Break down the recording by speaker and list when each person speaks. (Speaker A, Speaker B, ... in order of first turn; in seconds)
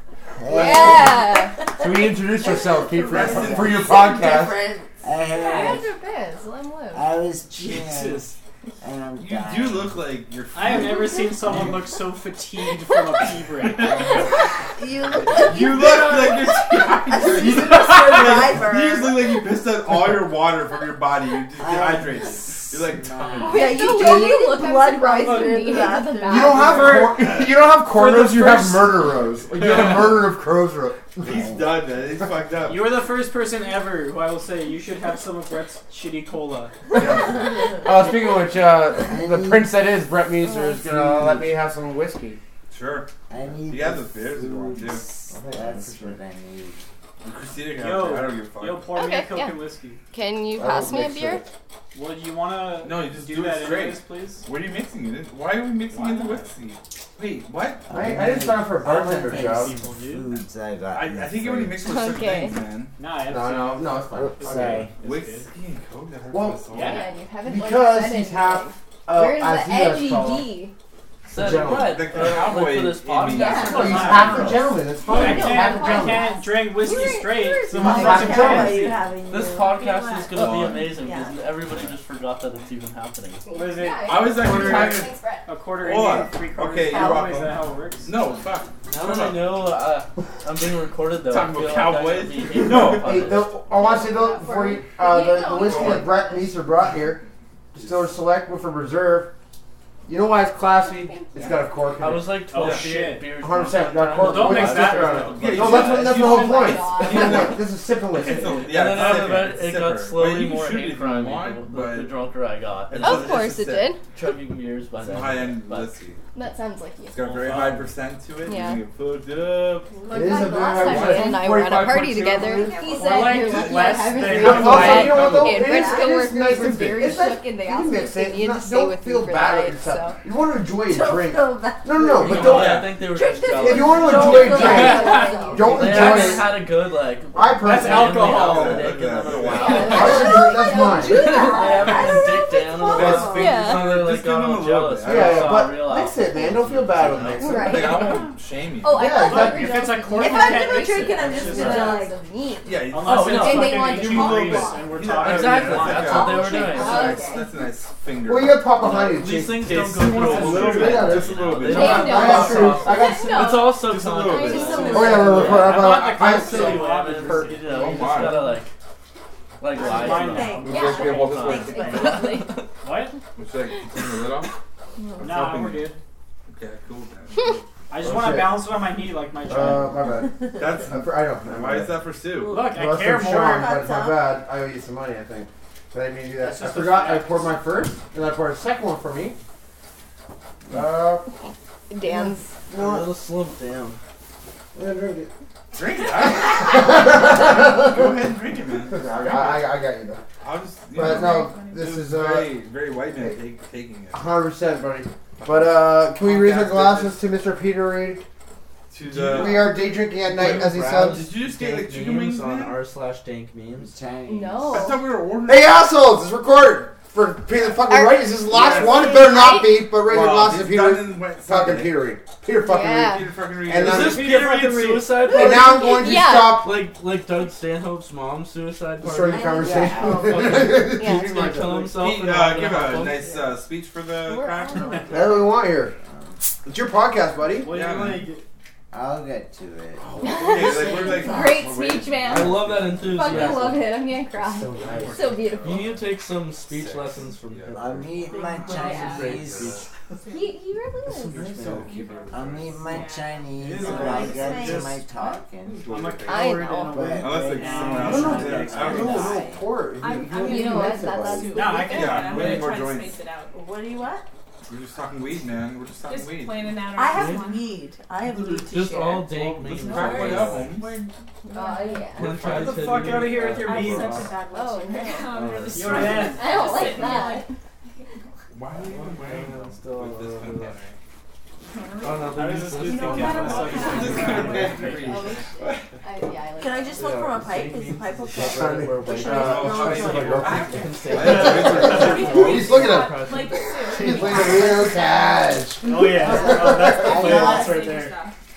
Speaker A: 0.4-1.4, 2.9-3.9, 5.0-5.9, 6.9-10.1, 21.5-22.8, 31.3-31.8, 39.0-39.7, 40.4-41.5, 43.3-46.8, 57.9-61.8, 64.2-64.7, 77.8-78.9, 213.8-214.9, 229.5-230.5, 235.0-236.4, 238.9-240.3, 247.7-249.8, 252.3-255.9, 256.8-259.6, 296.0-297.9
Speaker B: 0.5-1.6, 5.4-7.1, 23.4-27.0, 48.9-49.6, 50.1-51.4, 61.8-62.6, 66.8-70.7, 73.3-73.9, 75.1-77.7, 83.5-85.5, 93.7-96.5, 100.8-101.8, 105.8-107.6, 113.0-114.0, 116.3-117.5, 118.4-118.8, 120.0-130.2, 134.1-136.2, 139.5-143.8, 147.4-148.2, 148.8-154.9, 155.9-157.6, 161.6-165.7, 170.7-172.5, 175.0-175.5, 191.9-192.5, 214.3-215.1, 217.9-219.9, 222.6-223.2, 225.3-226.7, 230.9-231.4, 234.2-235.1, 240.2-245.9, 248.7-249.3, 250.3-251.4, 256.3-257.1, 260.4-261.9, 271.5-272.3, 274.5-275.3, 276.2-277.5, 284.9-287.1
Speaker C: 1.4-4.9, 14.8-19.4, 23.5-26.8, 73.5-73.8, 76.8-81.4, 86.9-87.3, 119.9-120.8, 122.4-123.4, 125.0-127.4, 130.8-136.4, 140.1-143.6, 150.1-152.2, 154.0-154.9, 169.7-172.4, 182.4-184.4, 229.3-230.8, 240.8-241.3, 253.8-255.0, 263.5-264.2, 266.9-269.4, 270.1-270.5, 286.6-290.8
Speaker D: 1.8-4.6, 26.2-31.5, 37.0-42.4, 45.3-46.2, 50.6-51.5, 57.9-59.8, 63.3-64.9, 66.3-66.6, 67.4-70.5, 71.3-72.0, 73.7-76.3, 77.8-78.9, 80.4-80.8, 93.0-99.3, 100.1-102.3, 103.4-108.6, 120.1-122.8, 124.3-132.8, 133.5-136.6, 137.3-138.2, 139.9-141.4, 145.1-148.0, 148.9-149.9, 158.2-163.6, 164.9-167.7, 178.0-178.7, 179.5-182.0, 182.6-189.4, 190.7-191.3, 192.1-193.1, 194.8-195.3, 196.2-198.2, 198.9-200.2, 200.9-202.6, 204.1-208.2, 209.1-211.2, 215.5-224.4, 225.2-226.8, 229.0-231.9, 235.1-235.9, 236.6-237.7, 244.5-245.3, 251.3-251.9, 258.0-261.6, 288.4-297.2
Speaker E: 3.1-4.1, 9.2-11.8, 13.6-14.5, 15.1-23.7, 29.5-30.3, 31.2-33.0, 37.0-37.3, 42.7-43.1, 43.6-45.0, 47.2-48.9, 52.8-57.9, 60.9-62.9, 64.9-67.1, 71.6-74.2, 80.4-80.8, 81.7-82.0, 84.0-85.1, 85.8-89.5, 91.3-93.1, 95.5-96.1, 97.8-98.1, 102.6-102.9, 105.3-112.2, 112.9-113.9, 115.0-116.2, 117.1-119.9, 120.9-121.3, 123.4-125.1, 132.3-132.9, 138.0-140.3, 142.9-145.7, 147.4-149.1, 152.6-158.7, 159.7-162.6, 163.7-165.1, 167.7-168.6, 170.5-172.0, 173.4-174.5, 175.2-175.9, 176.5-177.7, 180.6-182.6, 195.7-199.7, 200.4-204.3, 205.4-207.2, 208.9-209.8, 211.0-212.8, 214.7-215.8, 218.6-219.1, 220.0-222.0, 223.0-224.5, 231.9-235.2, 237.7-238.3, 240.0-243.8, 244.7-249.9, 251.3-253.1, 253.8-254.1, 255.7-256.7, 257.2-259.5, 261.9-263.2, 264.7-266.8, 269.3-271.1, 272.1-274.3, 275.3-276.4, 278.5-281.0, 283.4-285.9, 289.3-292.6
Speaker F: 5.3-5.8, 73.8-74.2, 201.0-201.8, 248.3-249.2, 250.3-250.5, 251.9-252.3, 252.8-254.4, 260.0-263.5, 266.1-267.7, 269.8-272.1, 273.6-277.5, 281.7-285.2, 291.4-295.1, 297.0-298.4
Speaker G: 7.6-8.4, 10.5-14.4, 23.0-23.6, 25.2-25.9, 26.6-29.0, 32.7-36.7, 47.7-50.0, 51.9-54.5, 55.9-56.5, 63.0-65.5, 66.7-67.1, 73.7-79.0, 83.5-88.1, 92.6-93.0, 102.5-103.2, 104.2-105.7, 117.3-117.8, 123.0-125.3, 137.6-139.0, 149.1-152.0, 152.9-156.8, 159.9-161.1, 165.1-168.5, 169.8-171.0, 172.8-173.2, 175.2-176.0, 177.9-180.0, 182.4-183.7, 186.4-187.6, 224.1-225.1, 237.5-238.5, 253.6-255.0, 255.8-259.4, 261.5-262.7, 272.4-274.3, 275.7-276.6, 282.3-284.9, 291.2-292.0, 295.8-298.2
Speaker H: 59.3-60.4, 71.3-74.7, 79.3-83.4, 88.9-93.5, 102.0-106.1, 108.5-113.3, 114.1-115.9, 132.2-140.4, 141.1-148.4, 151.6-151.9, 153.1-153.9, 155.2-157.2, 158.8-168.7, 169.6-172.6, 192.7-194.0, 209.1-209.7, 210.2-214.0, 223.8-229.5, 230.2-233.2, 242.3-243.9, 245.6-249.8, 251.2-251.9, 267.1-267.5, 268.3-270.8, 272.2-274.3, 275.4-276.3, 278.7-280.8, 282.0-285.3, 287.0-294.5